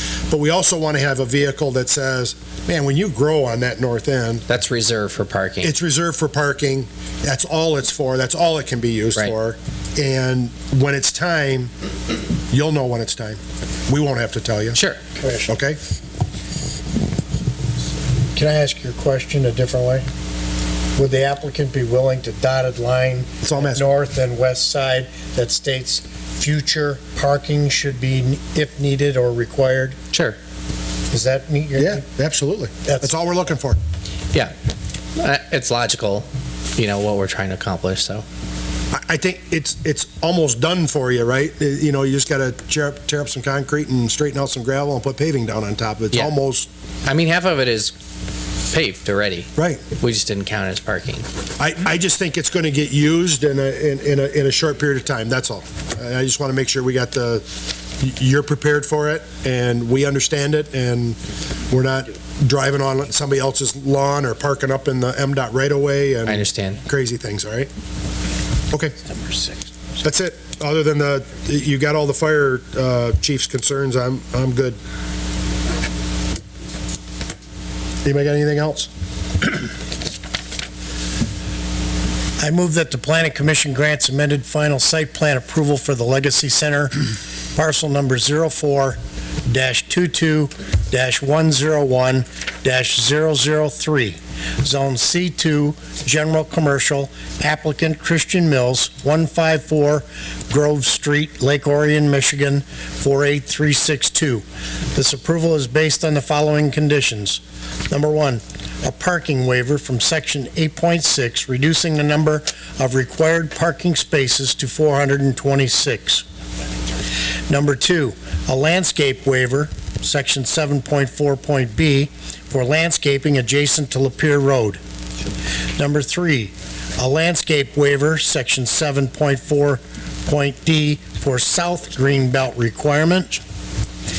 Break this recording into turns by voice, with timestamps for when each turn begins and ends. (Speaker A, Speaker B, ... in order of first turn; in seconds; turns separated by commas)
Speaker A: 0.3-4.4, Speaker B: 4.5-5.7, Speaker A: 5.6-11.7, Speaker A: 12.5-14.8, Speaker B: 14.7-15.0, Speaker C: 15.2-15.5, Speaker A: 15.5-15.8, Speaker C: 18.3-20.1, Speaker C: 21.0-30.0, Speaker A: 23.4-23.9, Speaker B: 30.1-30.4, Speaker C: 31.1-32.0, Speaker A: 31.8-33.8, Speaker C: 32.8-33.2, Speaker B: 35.2-38.2, Speaker A: 38.9-46.7, Speaker B: 47.0-47.9, Speaker B: 48.7-51.2, Speaker A: 49.6-49.8, Speaker A: 51.6-57.5, Speaker A: 58.0-67.7, Speaker B: 66.2-66.8, Speaker A: 68.7-69.0, Speaker A: 70.0-74.8, Speaker A: 78.0-78.9, Speaker C: 82.4-87.0, Speaker C: 87.5-116.2, Speaker C: 117.5-124.8, Speaker C: 125.8-133.4